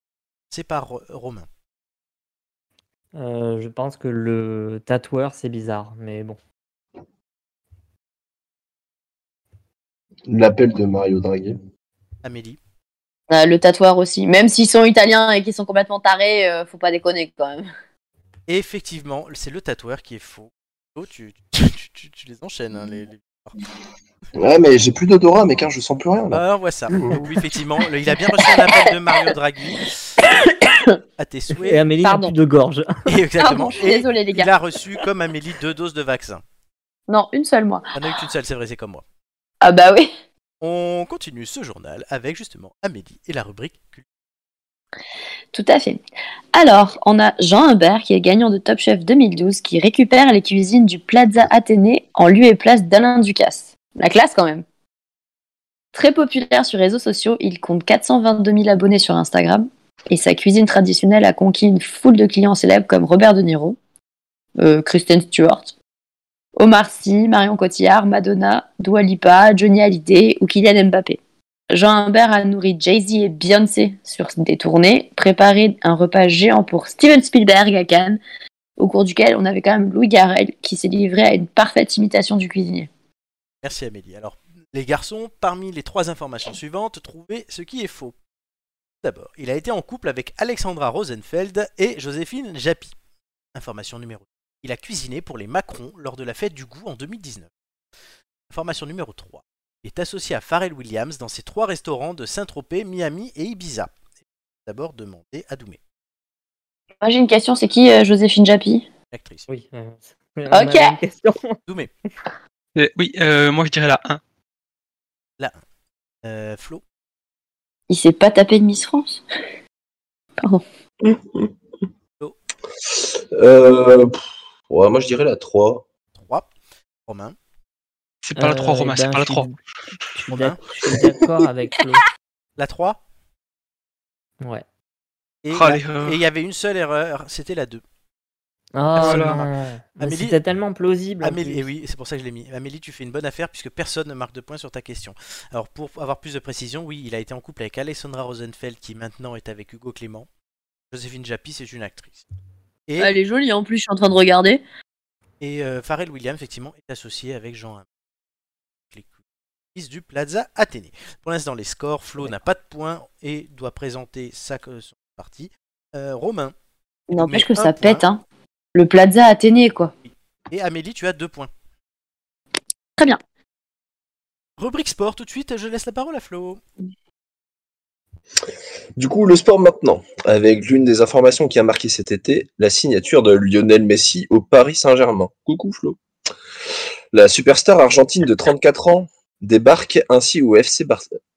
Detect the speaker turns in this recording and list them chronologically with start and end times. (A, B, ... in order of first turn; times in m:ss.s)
0:00.5-0:01.5 A
0:03.2-0:06.4 B
0:10.3-0:11.6 C
0:12.2-0:12.6 A
0:13.3-0:17.7 D
0:18.5-0:23.6 A
0:24.4-0:27.2 C
0:26.3-0:30.0 A
0:30.2-0:30.8 D
0:31.2-0:31.9 A
0:31.6-0:33.1 B
0:32.0-0:32.3 D
0:33.1-0:36.4 A
0:33.4-0:34.5 D
0:37.1-0:38.0 D
0:38.0-0:39.0 A
0:39.6-0:40.1 D
0:40.6-0:44.0 A
0:45.5-0:46.0 D
0:46.5-0:54.6 D
0:56.0-1:03.8 D
1:04.6-1:05.7 D
1:06.6-1:11.2 D
1:11.7-1:18.2 D
1:18.8-1:22.9 D
1:23.6-1:28.2 A
1:29.0-1:32.9 A
1:33.5-1:37.5 A
1:38.5-1:43.9 A
1:44.7-1:45.8 A
1:47.0-1:48.9 D
1:49.1-1:49.5 A
1:49.5-1:51.6 B
1:50.5-1:51.0 D
1:52.8-1:54.2 E
1:56.2-1:56.8 A
1:57.9-1:59.2 D
2:01.0-2:01.5 C
2:03.3-2:05.9 C
2:06.1-2:06.5 A
2:07.1-2:07.4 A
2:08.2-2:09.5 E
2:08.4-2:09.6 B
2:10.2-2:12.1 B
2:10.3-2:10.6 A
2:12.6-2:13.0 A
2:14.4-2:14.6 B
2:15.4-2:17.8 A
2:15.5-2:16.2 E
2:18.8-2:21.7 B
2:19.0-2:20.4 A
2:19.0-2:19.4 E
2:21.2-2:30.3 A
2:30.9-2:32.3 A
2:32.9-2:33.1 A
2:33.0-2:34.6 D
2:35.4-2:37.9 A
2:39.7-2:46.6 A
2:47.1-2:48.2 D
2:47.2-2:48.1 A
2:48.8-2:49.9 D
2:50.1-2:51.5 A
2:54.6-2:56.6 A
2:59.0-3:06.0 C
3:07.1-3:11.0 C